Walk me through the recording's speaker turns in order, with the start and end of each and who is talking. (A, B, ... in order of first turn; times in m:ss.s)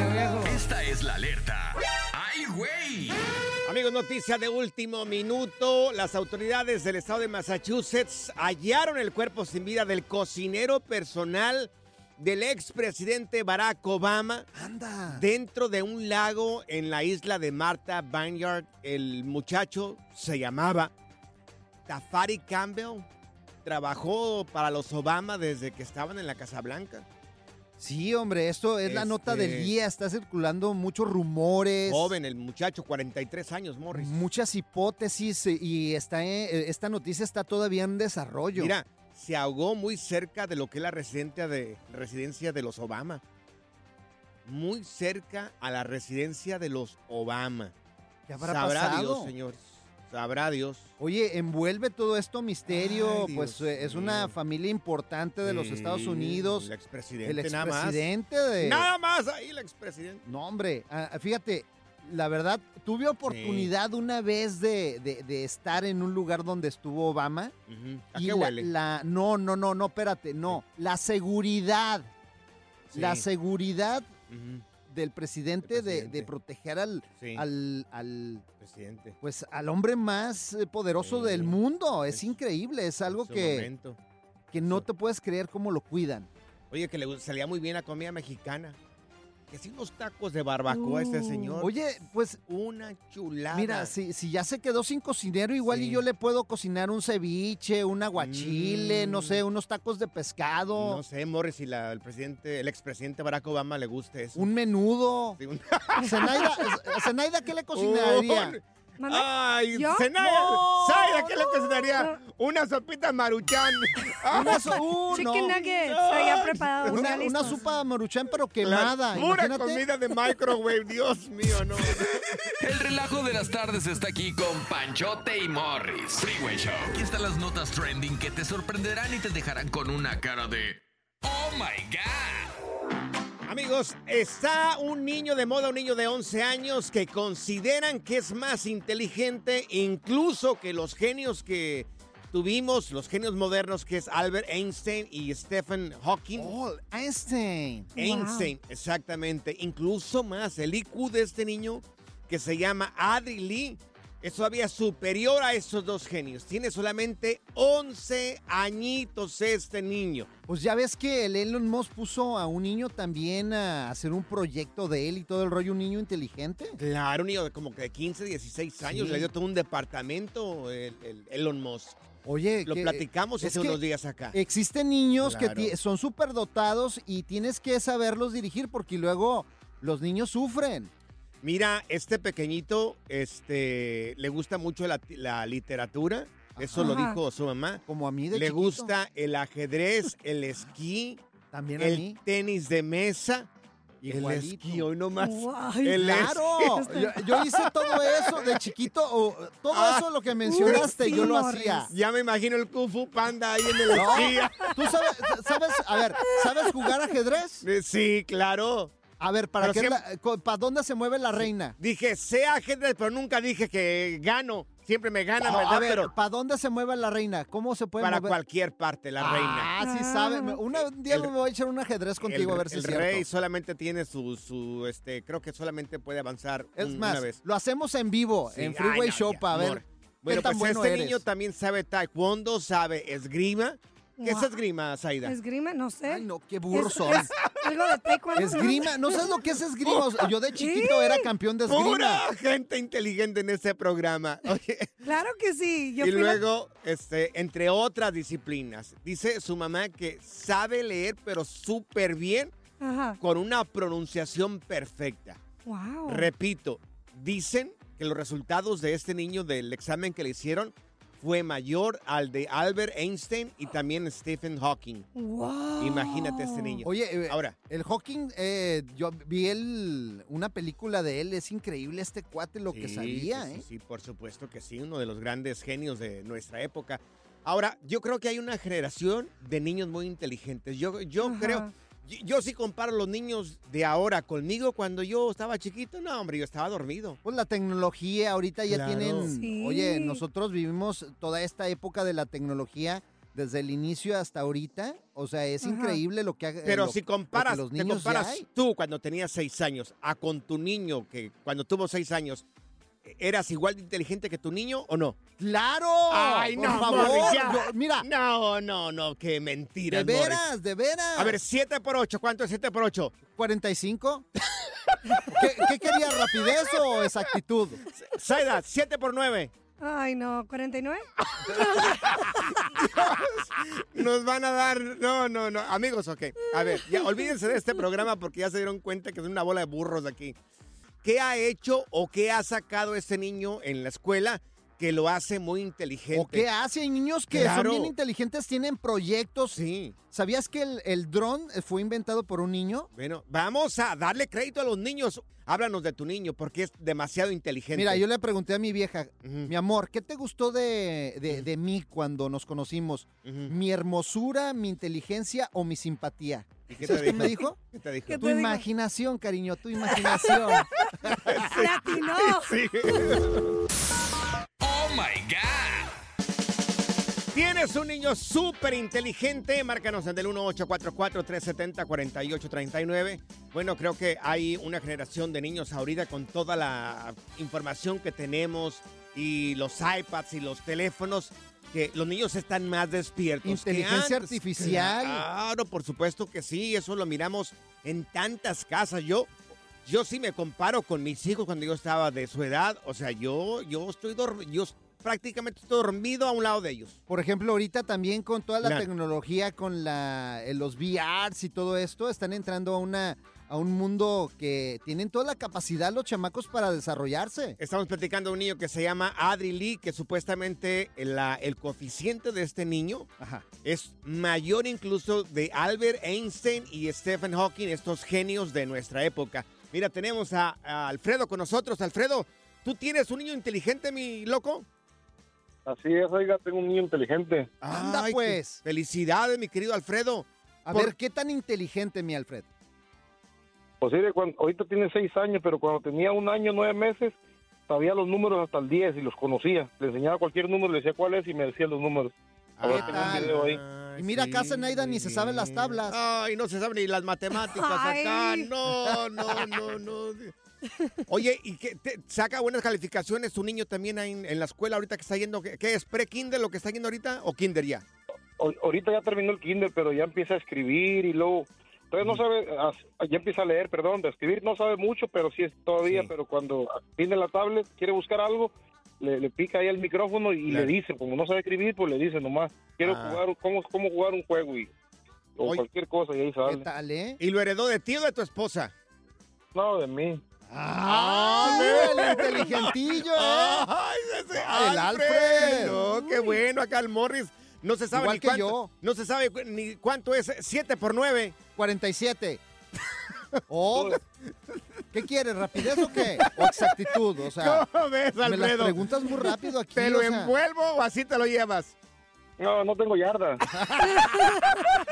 0:00.4-0:03.2 A
0:03.6-0:14.5 B
0:14.5-0:15.2 C
0:15.1-0:20.9 B
0:21.9-0:23.0 B
0:23.6-0:27.0 B
0:27.8-0:32.1 C
0:28.8-0:29.7 B
0:31.9-0:34.2 B
0:33.9-0:38.7 C
0:38.6-0:43.2 B
0:44.5-0:47.7 B
0:48.3-0:49.3 C
0:48.4-0:50.9 B
0:51.0-0:56.7 C
0:52.7-0:54.4 B
0:55.4-0:58.1 B
0:57.2-0:58.9 C
0:58.6-1:00.2 B
1:00.2-1:07.5 C
1:03.2-1:03.7 B
1:07.7-1:08.7 B
1:08.1-1:12.1 C
1:12.9-1:13.2 B
1:12.9-1:14.1 C
1:14.3-1:14.6 B
1:14.8-1:18.4 C
1:15.6-1:16.3 B
1:17.2-1:17.4 B
1:18.6-1:19.2 B
1:19.2-1:23.7 C
1:21.0-1:21.6 B
1:22.1-1:22.4 B
1:23.1-1:24.0 B
1:24.5-1:26.3 C
1:24.6-1:24.9 B
1:26.7-1:28.8 B
1:29.5-1:31.7 B
1:30.7-1:31.6 D
1:31.6-1:32.4 C
1:32.5-1:33.9 B
1:33.5-1:41.0 C
1:35.6-1:36.0 B
1:38.2-1:39.4 B
1:40.8-1:44.5 B
1:44.4-1:45.4 C
1:45.4-1:46.6 B
1:46.0-1:48.6 C
1:47.7-1:54.8 B
1:49.0-1:50.1 D
1:50.2-1:51.3 C
1:51.8-1:52.2 D
1:54.3-1:55.6 C
1:54.4-1:57.6 D
1:55.4-1:57.6 B
1:56.8-1:59.8 C
1:58.6-2:02.4 B
2:02.6-2:12.5 A
2:13.4-2:26.5 B
2:26.3-2:27.9 C
2:28.0-2:28.5 D
2:28.0-2:40.3 B
2:40.5-2:46.8 C
2:46.8-2:52.0 B
2:48.8-2:49.3 C
2:52.2-2:53.8 C
2:52.6-2:54.4 B
2:54.3-3:00.9 C
2:55.2-2:55.7 B
3:01.4-3:11.2 B
3:06.6-3:07.0 C
3:06.8-3:07.2 D
3:07.9-3:08.9 C
3:11.5-3:12.2 C
3:11.8-3:13.5 B
3:14.0-3:16.7 B
3:14.0-3:14.9 C
3:15.2-3:17.4 D
3:15.9-3:21.9 C
3:18.3-3:18.6 B
3:19.7-3:21.3 B
3:20.4-3:21.9 D
3:21.9-3:24.8 B
3:23.9-3:24.7 D
3:23.9-3:27.6 C
3:27.6-3:28.9 B
3:29.2-3:31.7 C
3:29.6-3:30.0 B
3:31.8-3:36.1 B
3:35.4-3:38.3 C
3:38.0-3:39.7 B
3:39.2-3:43.2 C
3:39.8-3:40.6 D
3:40.7-3:41.3 B
3:42.2-3:47.4 B
3:46.8-3:51.2 C
3:48.5-3:55.3 B
3:54.2-3:54.5 D
3:55.2-3:59.4 D
3:56.0-3:57.3 C
3:57.1-3:57.6 B
3:58.3-4:02.2 C
3:58.4-3:58.6 B
4:00.6-4:01.3 D
4:01.7-4:04.9 B
4:05.0-4:06.4 D
4:06.0-4:12.5 B
4:12.8-4:13.2 D
4:13.2-4:15.4 B
4:15.6-4:16.3 D
4:16.0-4:25.1 B
4:25.1-4:26.8 D
4:25.8-4:27.5 B
4:26.8-4:33.6 C
4:32.7-4:47.2 B
4:41.2-4:41.7 D
4:47.2-4:58.4 C
4:48.7-4:49.3 B
4:49.3-4:50.2 D
4:55.6-4:56.0 D
4:56.6-5:02.4 B
5:03.0-5:05.2 B
5:05.4-5:08.1 C
5:06.1-5:10.4 B
5:09.8-5:11.4 C
5:11.2-5:13.1 B
5:13.4-5:14.3 C
5:15.3-5:17.8 C
5:17.9-5:19.5 B
5:19.8-5:22.8 D
5:21.3-5:30.3 B
5:31.0-5:36.5 B
5:36.1-5:39.6 C
5:37.3-5:37.9 B
5:39.5-5:39.9 B
5:40.1-5:42.9 C
5:42.9-5:48.0 B
5:47.7-5:57.6 C
5:49.2-5:49.5 B
5:53.2-5:53.5 B
5:56.7-5:58.3 B
5:58.1-5:58.6 D
5:58.2-6:01.2 C
6:01.1-6:03.5 B
6:01.4-6:03.2 D
6:04.6-6:06.0 A
6:07.3-6:29.3 B
6:23.4-6:25.2 C
6:29.8-6:37.0 B
6:37.1-6:47.6 C
6:47.6-6:53.1 B
6:53.6-7:04.6 B
7:05.6-7:07.5 E
7:07.6-7:10.9 B
7:07.6-7:08.6 C
7:10.6-7:12.4 C
7:13.8-7:17.2 E
7:17.7-7:23.6 E
7:22.6-7:30.3 B
7:22.6-7:23.4 C
7:24.0-7:26.0 C
7:27.4-7:28.5 D
7:28.9-7:29.4 C
7:30.8-7:31.0 D
7:31.1-7:37.8 B
7:38.4-7:54.7 E
7:45.8-7:46.1 B
7:50.5-7:50.7 B
7:52.8-7:53.2 B
7:55.4-7:56.6 E
7:56.4-7:57.2 C
7:57.2-7:58.7 B
7:59.5-8:00.2 E
8:00.5-8:03.7 C
8:00.8-8:11.4 B
8:04.3-8:05.8 C
8:05.7-8:06.4 D
8:07.9-8:08.7 C
8:11.6-8:12.4 C
8:13.5-8:14.0 C
8:14.9-8:17.6 C
8:15.8-8:16.7 B
8:17.3-8:18.8 B
8:18.2-8:20.3 C
8:19.7-8:21.7 B
8:22.4-8:23.4 E
8:23.5-8:24.0 C